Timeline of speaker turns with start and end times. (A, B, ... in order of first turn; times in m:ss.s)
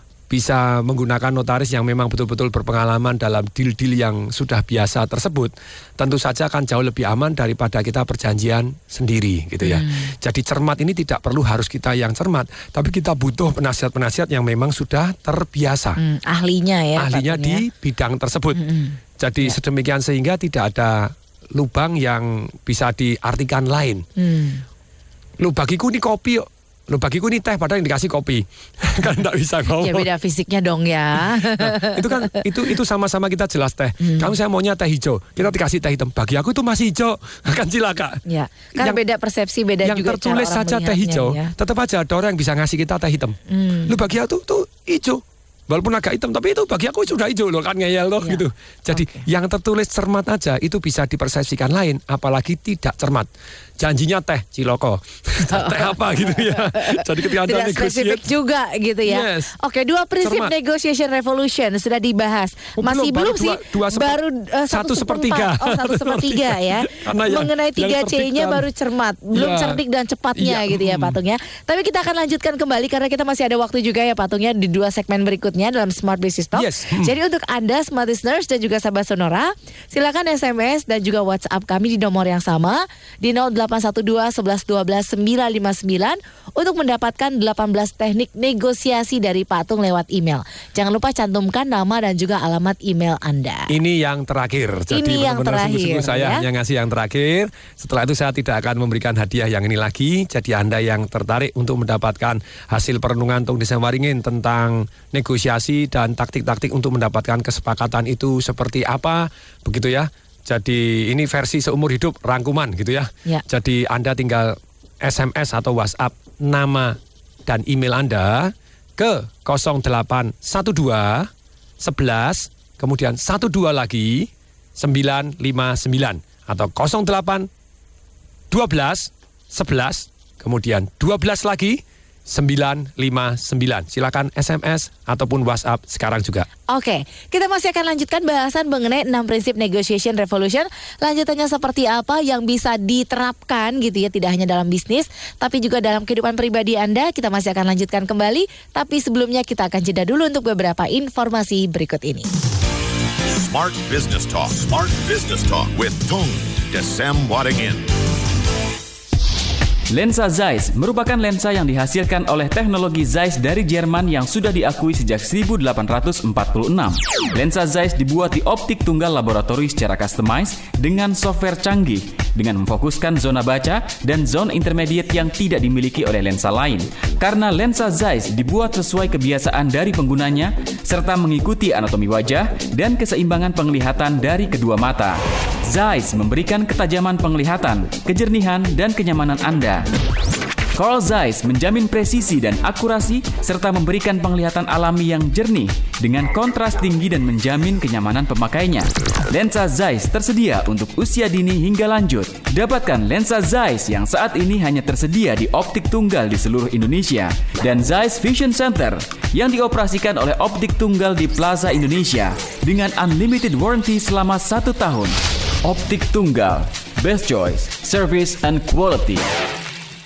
0:00.3-0:16.0 A
0:09.6-0:10.1 B
0:16.0-0:17.6 B
0:17.0-0:18.6 A
0:18.6-0:19.6 B
0:19.2-0:24.0 A
0:24.2-0:24.6 B
0:25.4-0:30.1 A
0:29.8-0:32.4 B
0:31.4-0:38.2 A
0:34.0-0:34.3 B
0:38.3-0:41.5 B
0:39.8-0:43.4 A
0:43.5-0:44.0 B
0:43.9-0:58.3 A
0:48.2-0:49.2 B
0:55.5-1:33.7 B
0:59.0-0:59.5 A
1:00.2-1:00.5 A
1:02.8-1:08.6 A
1:09.3-1:09.8 A
1:10.4-1:11.2 A
1:16.5-1:17.1 A
1:33.7-2:07.5 A
1:34.9-1:36.4 B
2:08.5-2:16.5 A
2:16.7-2:32.3 B
2:33.3-2:37.9 C
2:39.9-3:09.9 D
3:10.8-3:39.3 D